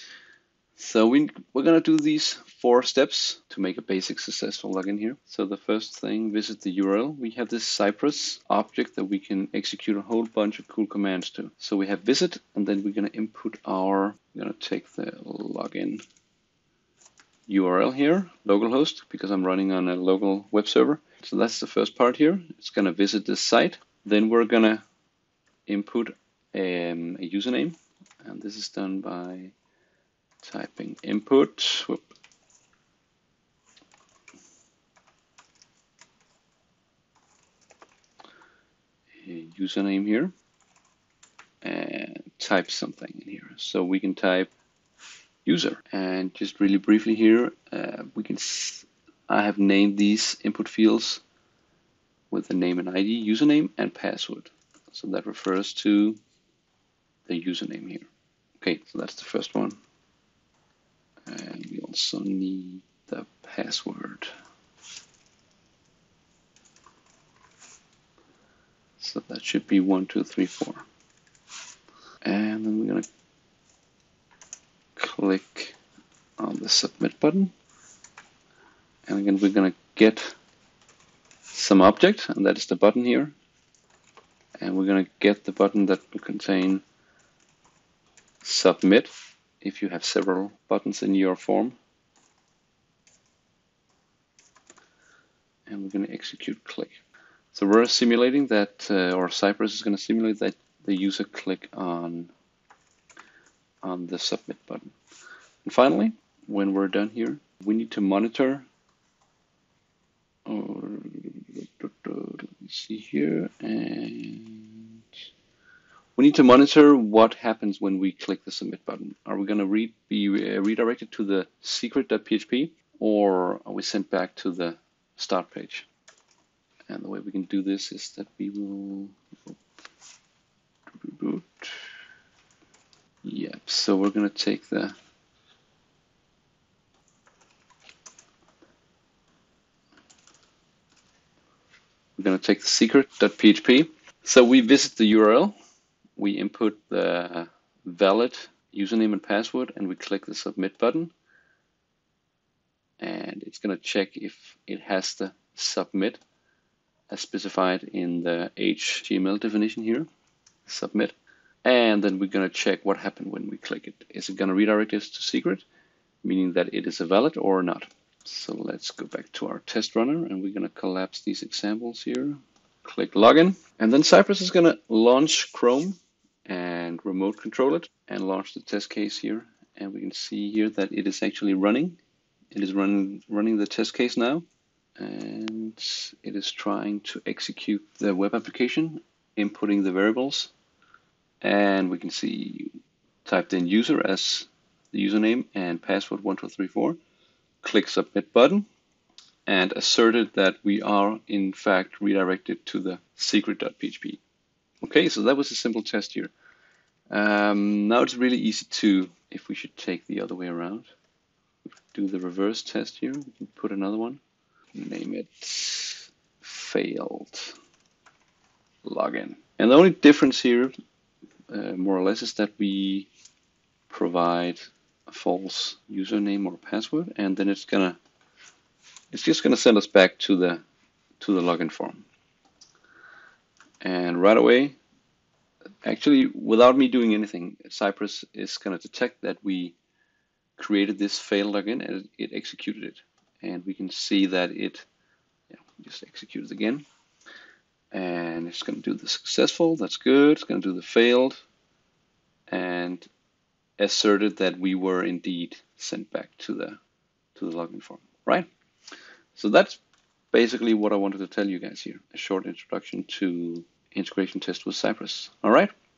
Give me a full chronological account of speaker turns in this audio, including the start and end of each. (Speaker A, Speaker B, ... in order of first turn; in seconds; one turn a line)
Speaker A: 0.8-16.0
Speaker A: 17.5-24.8
Speaker A: 25.7-29.5
Speaker A: 30.4-32.0
Speaker A: 39.2-40.3
Speaker A: 41.6-44.5
Speaker A: 45.4-51.2
Speaker A: 52.3-56.2
Speaker A: 57.3-58.1
Speaker A: 58.6-59.8
Speaker A: 61.3-64.3
Speaker A: 69.0-70.8
Speaker A: 72.2-73.0
Speaker A: 75.0-75.8
Speaker A: 76.4-77.5
Speaker A: 79.1-80.3
Speaker A: 81.5-83.3
Speaker A: 84.6-86.8
Speaker A: 88.4-91.8
Speaker A: 95.7-97.0
Speaker A: 97.5-102.3
Speaker A: 103.8-104.9
Speaker A: 105.6-108.7
Speaker A: 110.5-115.0
Speaker A: 116.2-125.9
Speaker A: 126.9-129.5
Speaker A: 130.9-131.9
Speaker A: 133.2-134.9
Speaker A: 142.2-145.6
Speaker A: 146.2-151.1
Speaker A: 153.0-156.2
Speaker A: 157.1-160.1
Speaker A: 160.7-165.6
Speaker A: 166.2-182.0
Speaker A: 182.5-184.4
Speaker A: 185.0-190.5
Speaker A: 191.4-197.0
Speaker A: 197.6-198.7
Speaker A: 199.5-204.2
Speaker A: 204.8-206.3
Speaker A: 207.1-210.9
Speaker A: 211.7-214.2
Speaker A: 214.7-217.6
Speaker A: 218.8-220.7
Speaker A: 221.5-223.1
Speaker A: 223.9-228.0
Speaker A: 229.1-230.6
Speaker A: 231.2-232.0
Speaker A: 233.8-234.8
Speaker A: 235.8-239.7
Speaker A: 240.6-244.8
Speaker A: 245.5-246.8
Speaker A: 247.9-251.4
Speaker A: 252.5-253.1
Speaker A: 253.8-256.8
Speaker A: 257.4-258.5
Speaker A: 259.3-259.8
Speaker A: 260.3-265.7